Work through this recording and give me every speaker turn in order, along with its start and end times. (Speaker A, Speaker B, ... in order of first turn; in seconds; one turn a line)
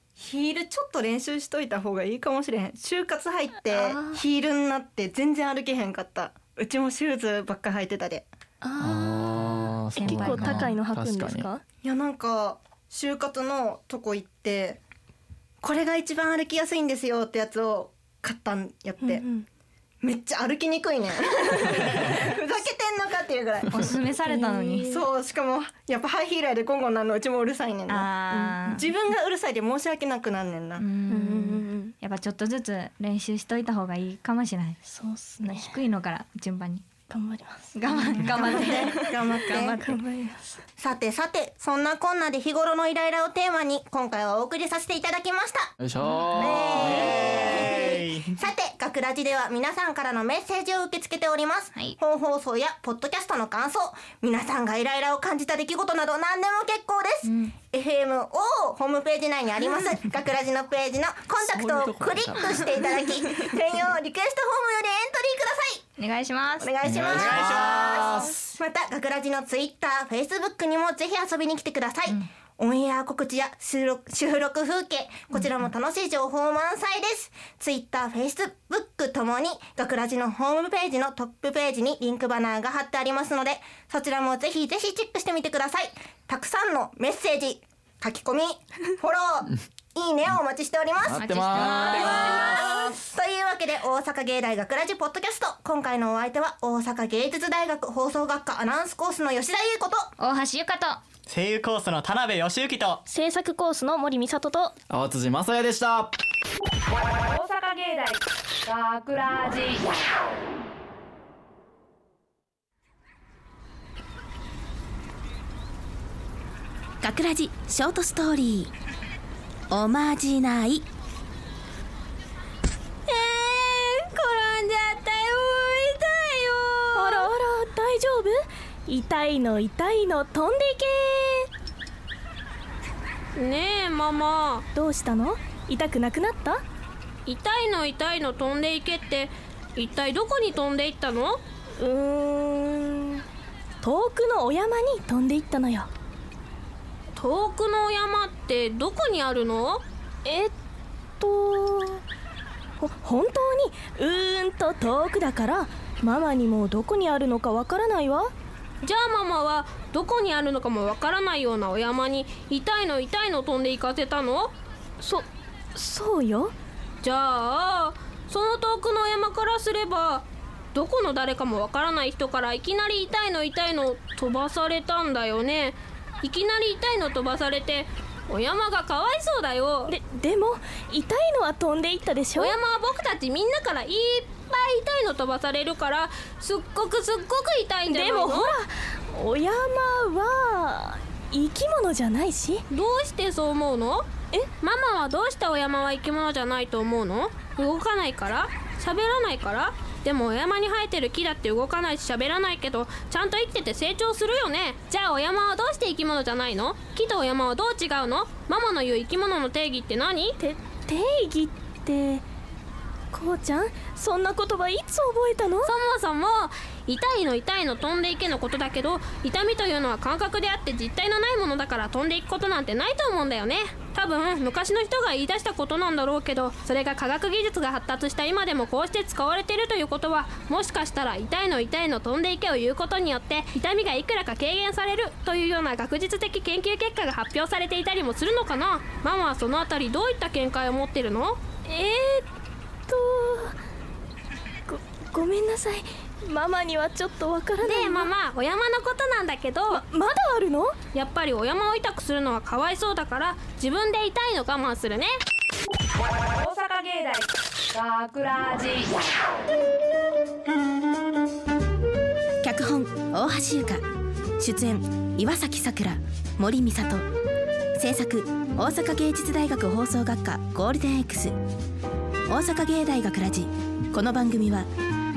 Speaker A: 0.2-8.3
Speaker B: 3.7-4.2
Speaker B: 8.6-11.6
Speaker C: 8.8-11.5
Speaker D: 10.0-10.8
Speaker A: 11.8-14.8
Speaker A: 15.6-19.2
Speaker B: 19.0-19.5
Speaker A: 20.0-24.1
Speaker D: 23.7-25.0
Speaker B: 24.2-25.0
Speaker A: 24.9-30.9
Speaker D: 27.9-28.9
Speaker D: 30.8-34.8
Speaker B: 31.1-31.9
Speaker B: 34.9-35.8
Speaker D: 35.4-36.9
Speaker B: 37.1-40.6
Speaker D: 37.8-40.0
Speaker A: 37.8-39.8
Speaker A: 40.8-45.7
Speaker C: 45.8-47.7
Speaker A: 46.4-65.9
Speaker E: 46.5-48.4
Speaker D: 57.2-57.5
Speaker C: 61.4-63.0
Speaker D: 66.0-66.7
Speaker A: 66.6-100.1
Speaker C: 66.8-68.6
Speaker E: 67.1-68.3
Speaker C: 91.0-92.6
Speaker D: 91.2-92.9
Speaker D: 100.2-101.0
Speaker E: 101.3-103.0
Speaker B: 103.1-104.7
Speaker C: 104.9-106.1
Speaker F: 107.2-109.9
Speaker G: 117.0-118.7
Speaker G: 119.7-120.9
Speaker H: 123.1-127.3
Speaker B: 127.0-131.5
Speaker H: 133.4-134.7
Speaker B: 134.7-136.6
Speaker H: 137.3-141.4
Speaker B: 141.8-143.2
Speaker B: 143.8-145.9
Speaker H: 147.1-149.8
Speaker B: 150.2-150.6
Speaker B: 151.2-152.0
Speaker B: 152.8-158.3
Speaker H: 158.8-164.5
Speaker B: 165.0-166.6
Speaker H: 167.0-179.9
Speaker B: 179.9-182.6
Speaker H: 182.4-188.6
Speaker B: 187.9-192.6
Speaker H: 192.7-194.1
Speaker H: 194.6-210.4
Speaker B: 210.4-212.2
Speaker B: 213.1-215.7
Speaker H: 215.6-241.4
Speaker B: 241.6-242.3
Speaker B: 242.9-243.6
Speaker B: 244.7-248.1
Speaker H: 247.6-249.8
Speaker B: 249.7-250.8
Speaker H: 250.9-255.1
Speaker F: 256.2-259.0
Speaker G: 262.4-263.9
Speaker G: 264.4-267.1
Speaker G: 267.8-271.4
Speaker G: 272.3-274.7